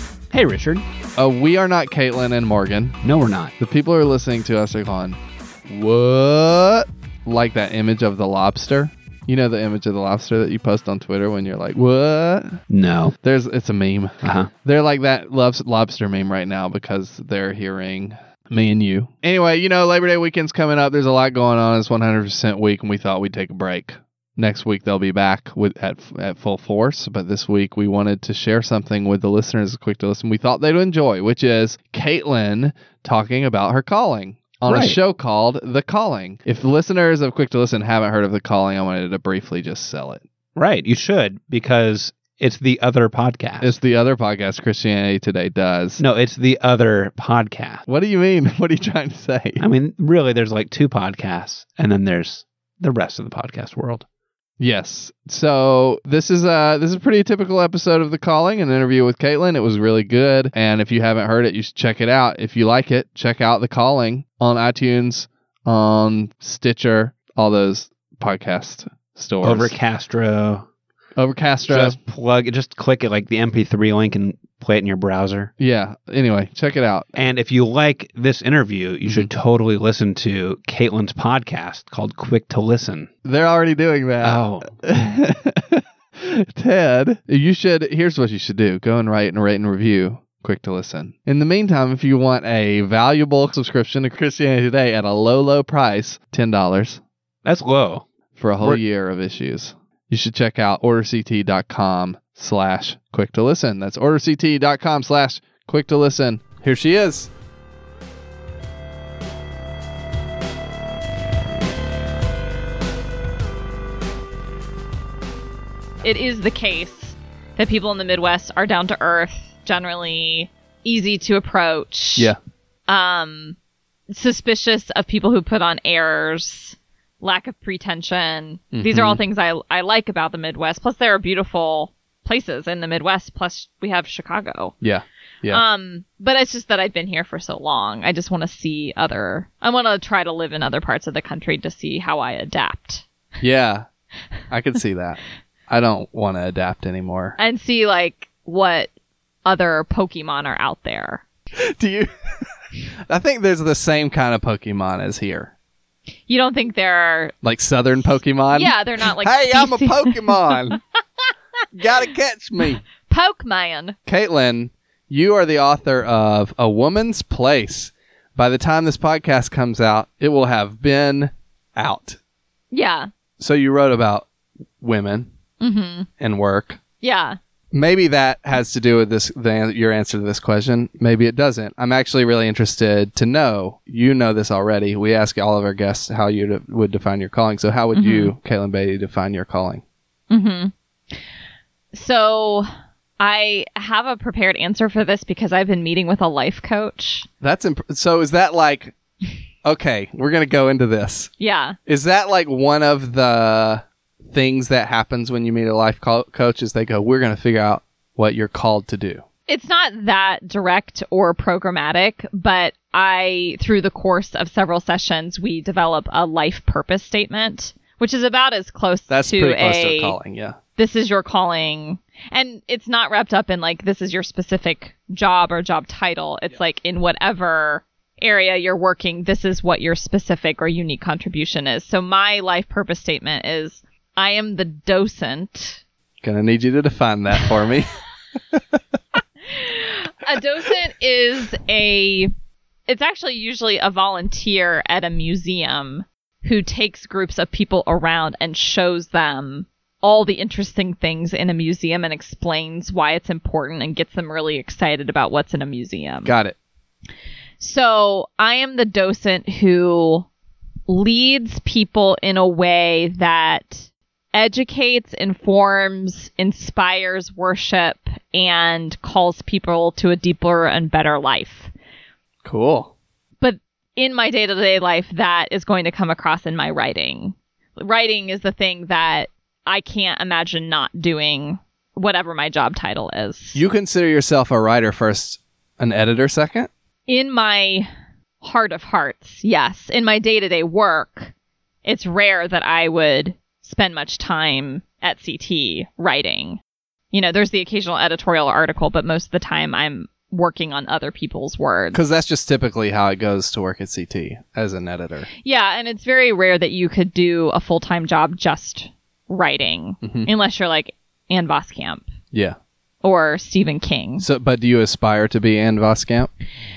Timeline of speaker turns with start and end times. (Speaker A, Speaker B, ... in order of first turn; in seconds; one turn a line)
Speaker A: 0.3-0.8
Speaker B: 1.2-3.0
Speaker A: 3.0-3.5
Speaker B: 3.6-12.6
Speaker A: 12.7-13.2
Speaker B: 13.2-40.2
Speaker A: 14.2-14.5
Speaker A: 34.7-35.0
Speaker A: 40.6-43.8
Speaker B: 43.6-46.0
Speaker A: 46.0-47.8
Speaker B: 47.9-49.6
Speaker A: 49.6-54.1
Speaker B: 54.6-69.7
Speaker A: 69.4-70.7
Speaker B: 71.2-72.0
Speaker A: 71.7-75.5
Speaker B: 75.6-77.1
Speaker A: 77.2-83.1
Speaker B: 79.0-79.3
Speaker B: 83.2-97.0
Speaker A: 84.2-84.8
Speaker A: 97.5-98.0
Speaker B: 98.4-107.3
Speaker C: 116.0-122.3
Speaker C: 122.9-123.6
Speaker C: 124.1-134.8
Speaker B: 128.7-129.2
Speaker B: 134.8-135.6
Speaker C: 135.5-143.1
Speaker B: 143.4-143.9
Speaker B: 144.5-147.4
Speaker C: 147.4-148.9
Speaker C: 149.4-151.2
Speaker B: 151.6-152.5
Speaker B: 153.1-155.5
Speaker C: 156.3-157.3
Speaker B: 157.4-160.8
Speaker C: 158.5-160.8
Speaker B: 161.7-162.8
Speaker C: 163.1-164.0
Speaker B: 164.1-172.2
Speaker C: 172.7-173.1
Speaker B: 173.4-174.3
Speaker B: 174.8-175.3
Speaker C: 175.6-176.1
Speaker B: 176.2-176.8
Speaker C: 177.0-177.4
Speaker B: 177.7-189.8
Speaker C: 187.9-188.3
Speaker C: 190.3-190.7
Speaker C: 191.9-192.7
Speaker C: 193.2-197.3
Speaker B: 197.4-198.9
Speaker B: 199.7-201.3
Speaker C: 201.4-201.8
Speaker B: 201.9-209.2
Speaker C: 209.5-220.2
Speaker B: 219.1-220.6
Speaker C: 220.8-235.8
Speaker B: 236.2-237.9
Speaker B: 238.5-238.8
Speaker C: 239.4-242.3
Speaker C: 242.9-256.3
Speaker B: 256.2-256.6
Speaker C: 257.6-260.3
Speaker C: 260.9-271.7
Speaker B: 272.4-272.9
Speaker C: 273.4-283.6
Speaker B: 283.6-286.7
Speaker C: 287.1-287.9
Speaker C: 288.4-291.3
Speaker C: 291.9-296.6
Speaker C: 297.1-302.0
Speaker B: 301.9-305.3
Speaker C: 305.4-312.1
Speaker B: 310.0-310.3
Speaker C: 313.0-314.3
Speaker B: 314.2-316.3